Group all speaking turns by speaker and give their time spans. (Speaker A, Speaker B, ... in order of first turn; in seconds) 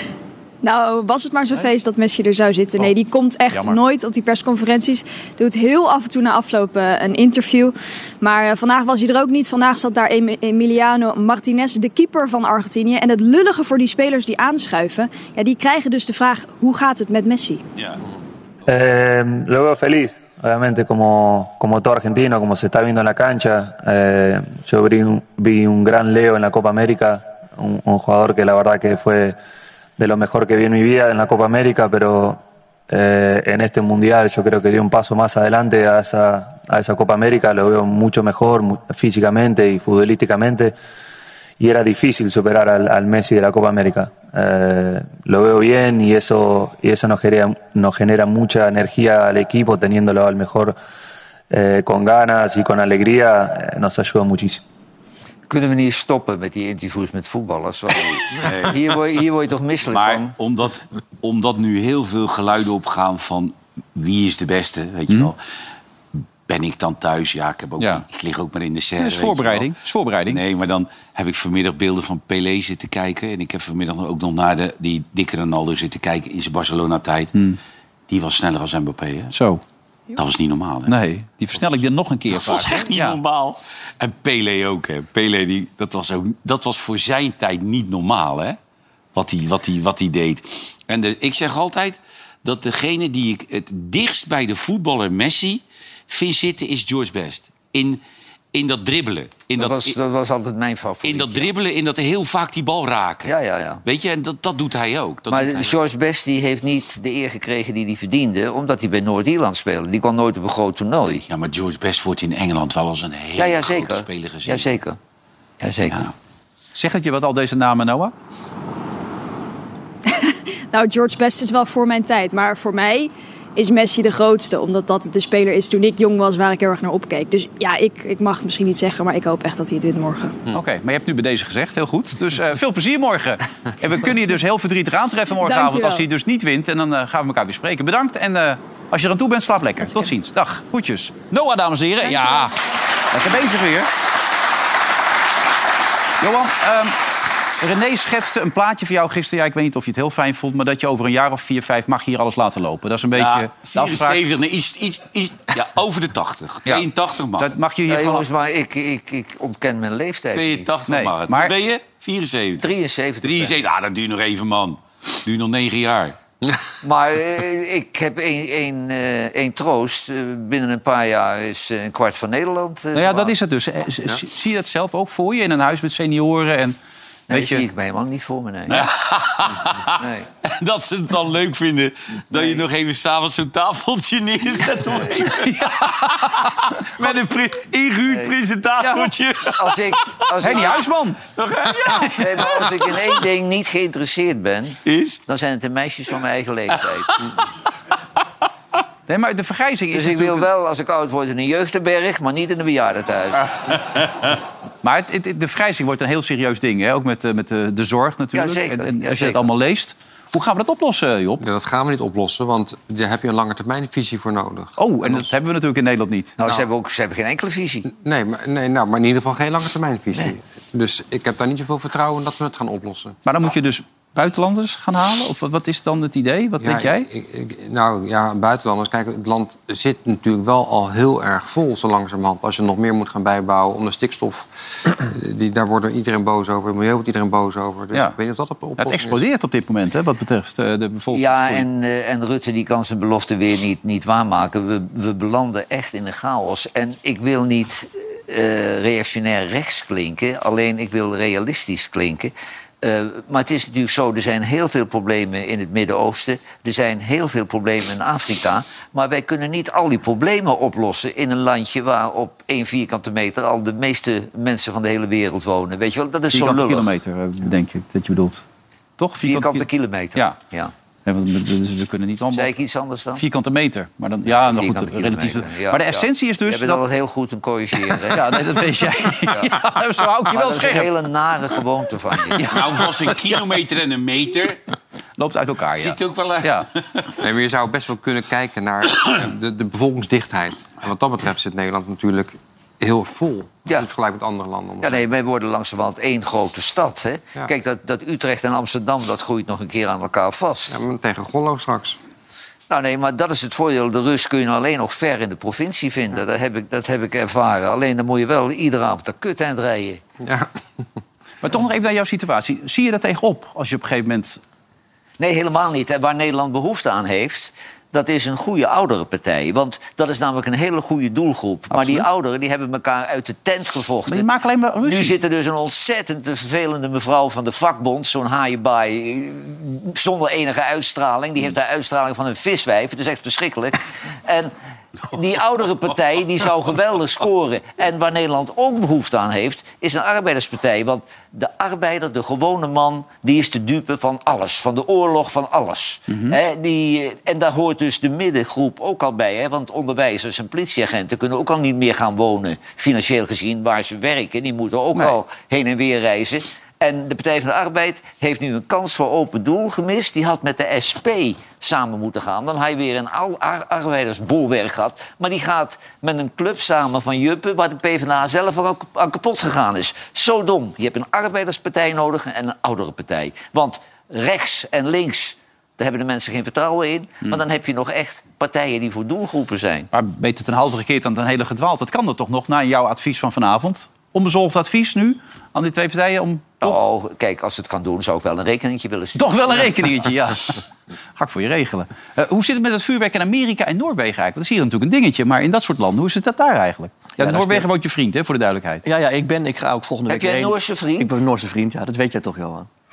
Speaker A: 0.6-17.6, 120.1-130.4, 135.4-136.1
Speaker B: 3.5-3.8, 67.8-68.0, 69.0-70.4, 79.3-79.6, 80.9-83.2, 116.8-118.1, 130.5-142.6, 143.1-143.9, 146.2-147.0, 147.6-154.2, 156.7-158.3, 160.9-161.5, 172.9-176.8, 177.3-177.6, 185.3-187.2, 188.8-189.1, 190.4-192.4, 199.1-200.5, 204.8-211.4, 214.8-216.3, 223.3-227.1, 238.8-241.7, 266.3-268.4, 269.0-270.4, 271.1-272.5, 273.2-276.8, 278.1-280.9, 282.4-283.2, 285.2-286.7, 311.4-314.4, 321.7-322.1, 324.1-325.2, 346.1-346.4, 379.9-386.8, 389.1-390.6, 391.2-398.8
Speaker C: 18.6-29.4, 30.0-40.8, 41.6-50.8, 51.5-54.6
Speaker D: 55.5-60.3, 99.6-101.5, 103.2-103.8, 105.3-111.2, 113.4-115.0, 115.6-116.1, 157.9-160.7, 162.6-163.6, 166.8-173.3, 177.3-178.9, 179.9-180.3, 182.3-182.6, 188.1-188.3, 189.5-190.8, 192.0-197.2, 199.9-203.5, 208.3-209.4, 216.4-217.9, 241.1-266.9, 269.2-270.7, 272.3-273.2, 274.3-279.6, 280.3-282.5, 294.8-300.8, 302.7-310.0, 315.2-324.3, 324.8-334.5, 335.1-379.9, 386.6-389.6, 400.1-401.2
Speaker E: 58.3-59.0, 59.9-65.4, 66.5-69.7, 70.3-77.4, 78.1-79.3, 80.2-81.0, 82.3-88.6, 89.1-98.0, 98.5-100.0, 101.0-103.3, 103.8-105.8, 111.3-114.8, 115.8-116.1, 153.1-157.6, 160.3-162.7, 163.2-166.2, 178.8-185.6, 187.0-189.6, 191.4-192.1, 194.8-195.2, 282.4-284.6, 285.8-287.1
Speaker F: 211.4-214.8, 217.9-223.2, 226.6-239.2, 287.2-295.0, 300.7-302.0, 310.2-310.5
Speaker G: 397.2-397.7, 398.9-402.7